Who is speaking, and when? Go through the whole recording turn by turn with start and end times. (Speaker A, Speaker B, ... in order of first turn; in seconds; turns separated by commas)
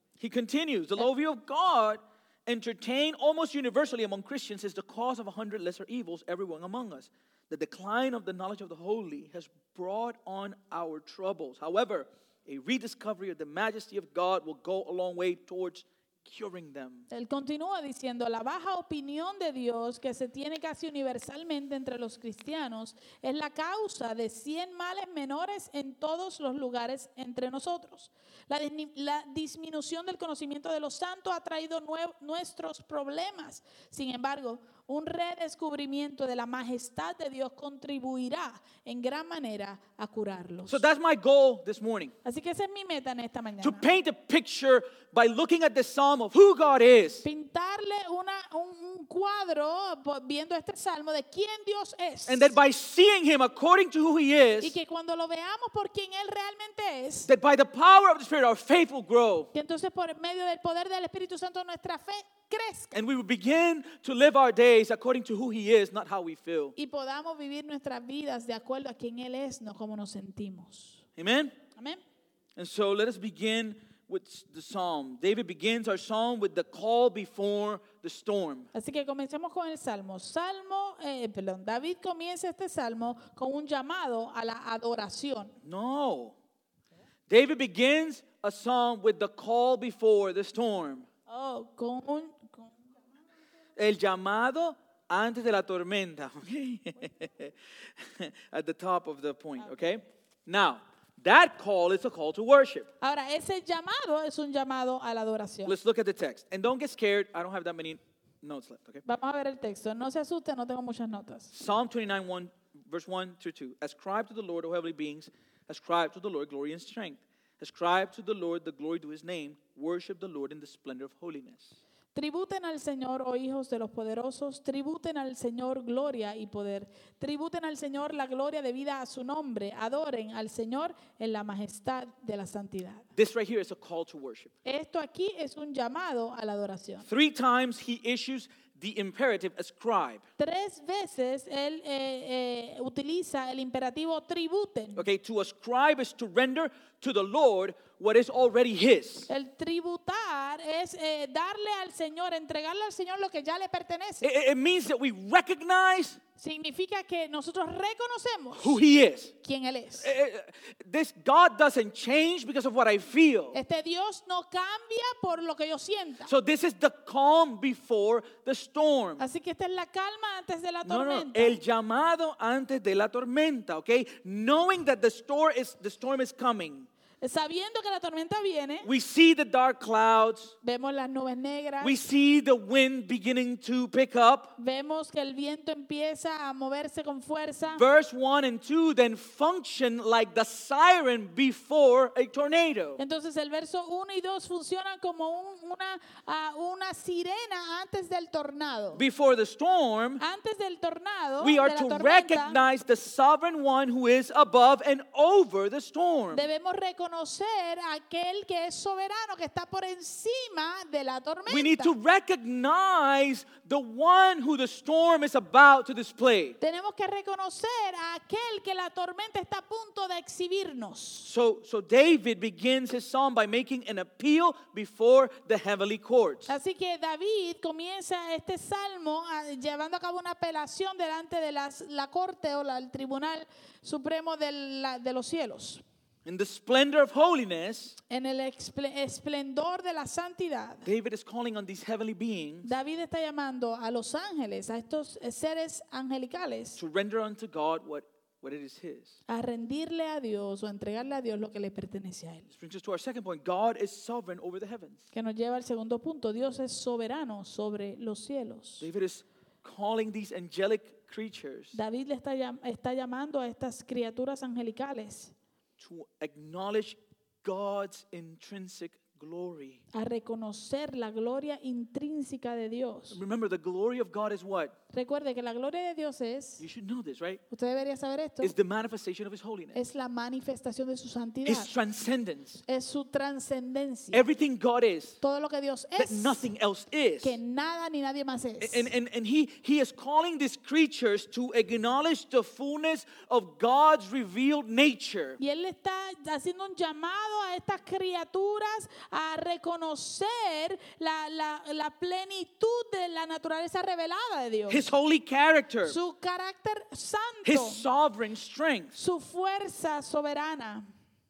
Speaker A: 0.2-17.1, Speaker B: 17.1-40.8, Speaker A: 40.7-42.1, Speaker B: 42.2-43.9, Speaker A: 43.6-47.3, Speaker B: 47.2-52.5, Speaker A: 52.3-54.8, Speaker B: 54.6-57.3, Speaker A: 57.2-59.5, Speaker B: 59.5-63.0, Speaker A: 62.9-66.8, Speaker B: 66.8-71.0, Speaker A: 71.2-71.6, Speaker B: 71.8-72.0, Speaker A: 72.6-78.7, Speaker B: 78.7-85.6, Speaker A: 85.6-86.4, Speaker A: 87.3-91.1, Speaker B: 91.3-92.8, Speaker A: 93.8-102.9, Speaker B: 103.0-105.8, Speaker A: 105.7-109.0, Speaker B: 109.0-111.5, Speaker A: 111.5-121.8, Speaker B: 122.1-133.1, Speaker A: 133.2-134.5, Speaker B: 134.6-137.1, Speaker A: 137.0-140.2, Speaker B: 140.4-145.0, Speaker A: 145.0-149.3, Speaker B: 149.3-154.3, Speaker A: 154.2-156.2, Speaker B: 156.4-158.8, Speaker A: 158.5-159.3, Speaker B: 159.4-160.1, Speaker A: 160.0-163.6, Speaker B: 163.5-166.3, Speaker A: 166.3-169.2, Speaker B: 169.2-171.6, Speaker A: 170.8-176.9, Speaker B: 177.2-178.9, Speaker A: 178.8-180.6, Speaker B: 180.6-182.0, Speaker A: 181.8-184.5, Speaker B: 184.6-187.8, Speaker A: 187.7-193.0, Speaker B: 193.0-199.0, Speaker A: 198.9-200.2, Speaker B: 200.2-202.6, Speaker A: 201.4-206.5, Speaker B: 206.3-211.9, Speaker A: 211.5-216.6, Speaker B: 216.6-221.3, Speaker A: 221.2-226.5, Speaker B: 226.5-235.8, Speaker A: 236.2-238.0, Speaker B: 238.1-240.9, Speaker A: 240.8-242.7, Speaker B: 242.6-246.8, Speaker A: 246.8-249.2, Speaker B: 249.3-252.5, Speaker A: 252.5-255.0, Speaker B: 255.1-258.9, Speaker A: 258.8-261.8, Speaker B: 261.7-265.4, Speaker A: 265.8-269.8, Speaker B: 269.9-273.2, Speaker A: 273.1-274.8, Speaker B: 274.9-276.7, Speaker A: 276.6-277.4, Speaker B: 277.5-278.5, Speaker A: 278.4-279.8, Speaker B: 279.8-281.7, Speaker A: 281.4-282.6, Speaker B: 282.7-284.3, Speaker A: 284.1-285.2, Speaker B: 285.2-286.5, Speaker A: 286.0-287.4, Speaker B: 287.2-288.9, Speaker A: 288.6-295.4, Speaker B: 295.4-304.9, Speaker A: 304.7-306.0, Speaker B: 305.9-307.9, Speaker A: 307.4-309.0, Speaker B: 308.9-310.9